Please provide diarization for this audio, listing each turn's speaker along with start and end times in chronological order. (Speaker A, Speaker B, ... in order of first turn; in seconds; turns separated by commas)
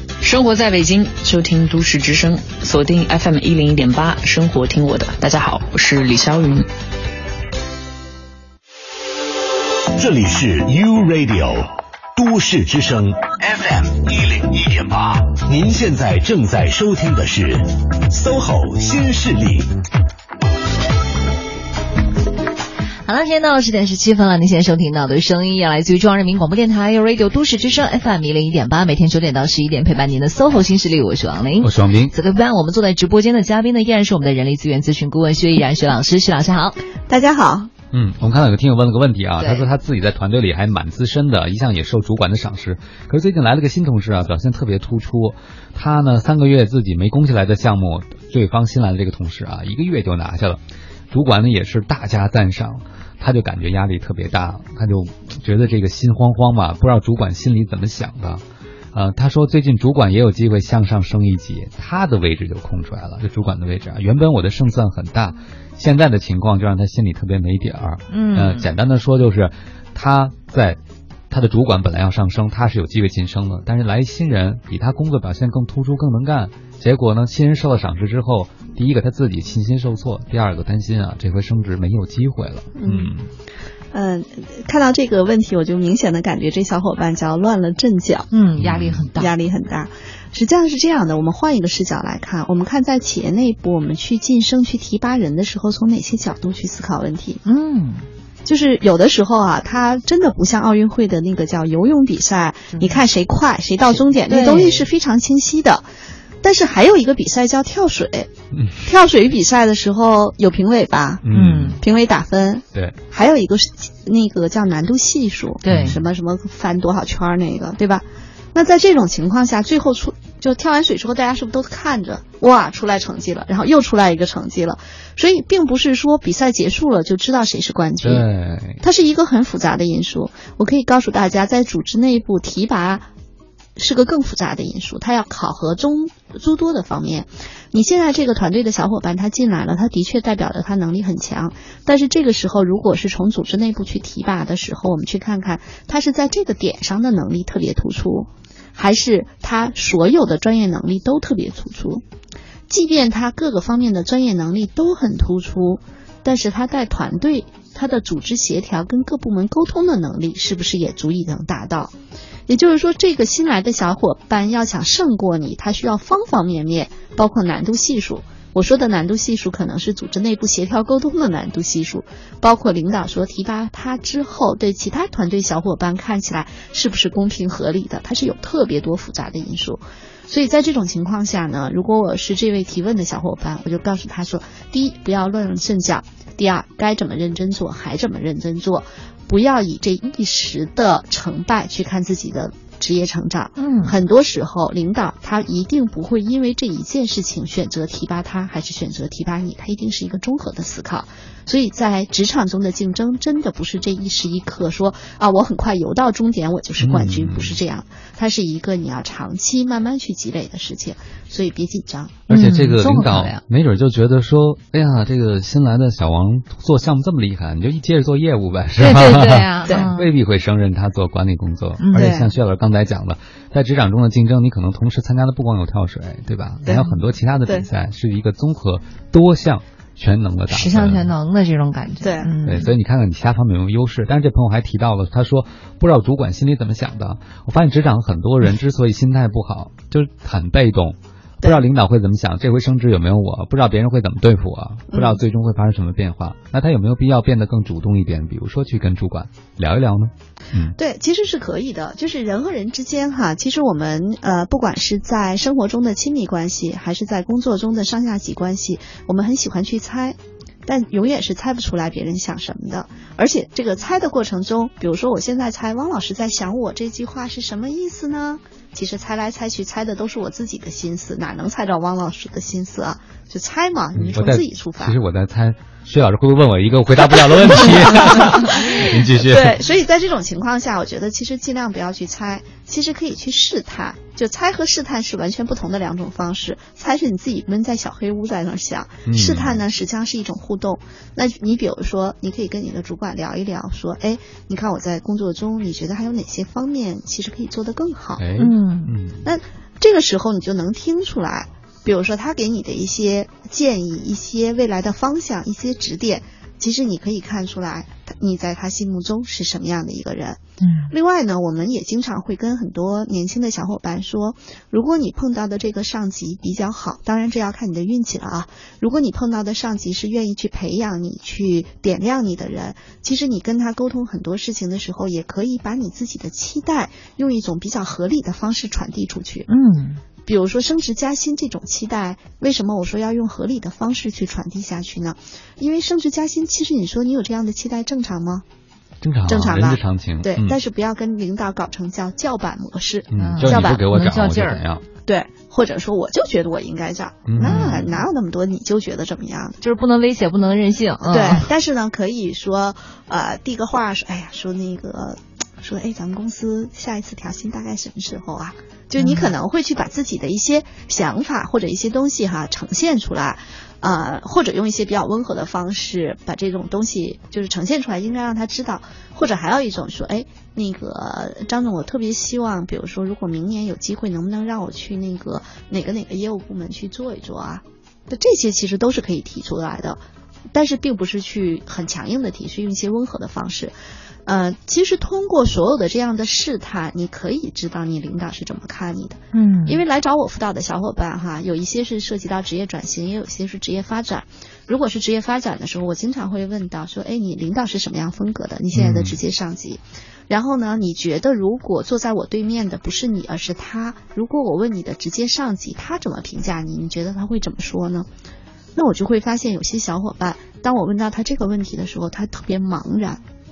Speaker A: 0.2-6.7, Speaker B: 9.9-19.7, Speaker C: 23.1-36.8, Speaker D: 31.6-32.1, Speaker E: 37.1-37.7, Speaker D: 37.9-70.8, Speaker C: 39.4-39.6, Speaker C: 68.1-68.7, Speaker D: 71.3-83.3, Speaker E: 82.8-83.1, Speaker E: 83.9-88.3, Speaker C: 88.3-89.3, Speaker D: 88.6-89.0, Speaker E: 89.2-97.4, Speaker C: 97.4-98.0, Speaker E: 98.5-105.9, Speaker C: 102.7-103.0, Speaker C: 104.3-104.9, Speaker E: 106.4-108.3, Speaker D: 108.5-108.8, Speaker E: 108.8-111.2, Speaker D: 111.2-111.8, Speaker C: 111.3-111.8, Speaker E: 111.8-128.2, Speaker C: 115.6-116.0, Speaker D: 115.7-116.0, Speaker D: 128.0-128.8, Speaker E: 128.8-133.1, Speaker E: 133.8-152.0, Speaker E: 152.7-161.9, Speaker E: 162.5-212.2, Speaker C: 193.6-193.9, Speaker D: 206.8-207.6, Speaker C: 212.3-213.4, Speaker D: 212.3-231.1, Speaker C: 218.8-220.1, Speaker C: 221.8-222.1, Speaker E: 221.9-222.3, Speaker E: 226.6-226.9, Speaker C: 230.5-232.7, Speaker E: 232.0-232.3, Speaker D: 232.4-250.8, Speaker E: 244.9-245.2, Speaker E: 250.8-274.9, Speaker D: 273.9-279.6, Speaker E: 277.5-298.2, Speaker D: 289.1-289.6, Speaker D: 298.2-299.2, Speaker C: 298.4-298.9, Speaker E: 299.2-329.5, Speaker C: 310.6-310.9, Speaker C: 329.5-330.0, Speaker E: 330.2-338.4, Speaker D: 339.0-340.6, Speaker E: 339.3-343.8, Speaker D: 343.1-344.8, Speaker C: 343.2-344.6, Speaker E: 345.1-349.6, Speaker D: 347.3-347.8, Speaker C: 347.4-348.0, Speaker C: 349.6-351.4, Speaker E: 351.1-383.7, Speaker C: 359.0-359.3, Speaker E: 384.2-408.1, Speaker C: 389.3-389.8, Speaker D: 398.7-399.2, Speaker E: 408.7-413.2